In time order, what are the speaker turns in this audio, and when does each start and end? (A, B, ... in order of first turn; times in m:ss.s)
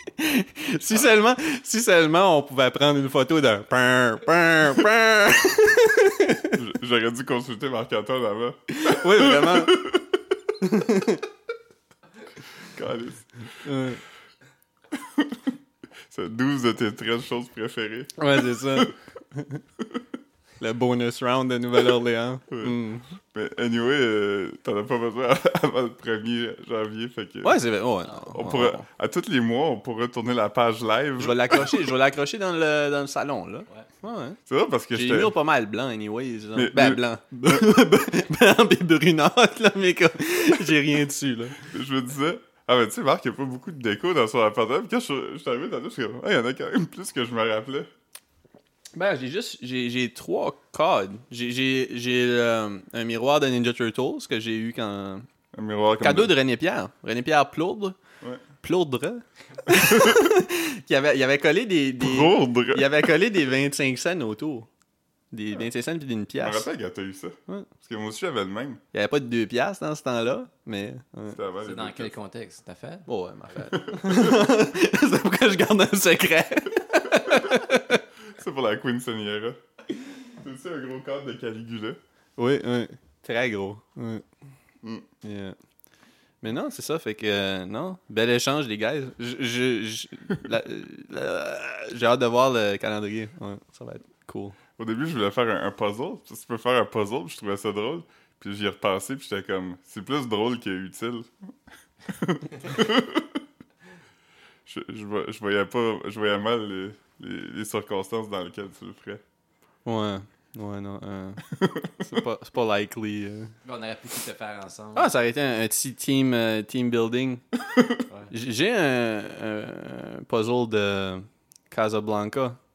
0:00.2-0:06.6 A
0:06.5-0:10.1 B
0:08.7-0:09.9 A
0:10.6-0:11.2 A
0:12.7-0:13.3 B
0:13.6-0:14.0 A
0:14.9-0:15.4 B
0:16.1-0:18.9 B
0:18.2-0:19.6 A
0:20.6-0:23.0 A
0:22.5-0:22.8 B
0:23.3-0:27.6 B
0:27.4-0:28.8 A
0:28.3-0:31.8 B
0:31.2-0:34.4 A
0:34.5-0:35.4 B
0:34.9-0:41.6 A
0:36.5-0:37.7 B
0:41.6-0:47.9 B
0:48.9-0:55.2 A
0:55.5-0:56.3 B
0:56.0-0:58.0 A
0:58.6-1:04.7 A
0:59.9-1:00.2 B
1:02.0-1:03.1 B
1:05.3-1:06.7 A
1:06.4-1:08.8 B
1:08.9-1:11.4 A
1:11.3-1:12.1 B
1:11.6-1:13.1 C
1:13.1-1:18.0 A
1:13.8-1:14.4 B
1:17.2-1:17.7 B
1:18.3-1:19.6 B
1:20.4-1:22.0 B
1:22.4-1:24.2 A
1:25.2-1:25.6 A
1:26.4-1:34.6 A
1:34.8-1:41.3 B
1:42.1-1:43.4 B
1:44.6-1:49.2 B
1:49.8-1:53.5 A
1:51.6-1:51.9 B
1:53.6-1:55.1 C
1:54.9-1:57.4 A
1:58.3-2:02.6 A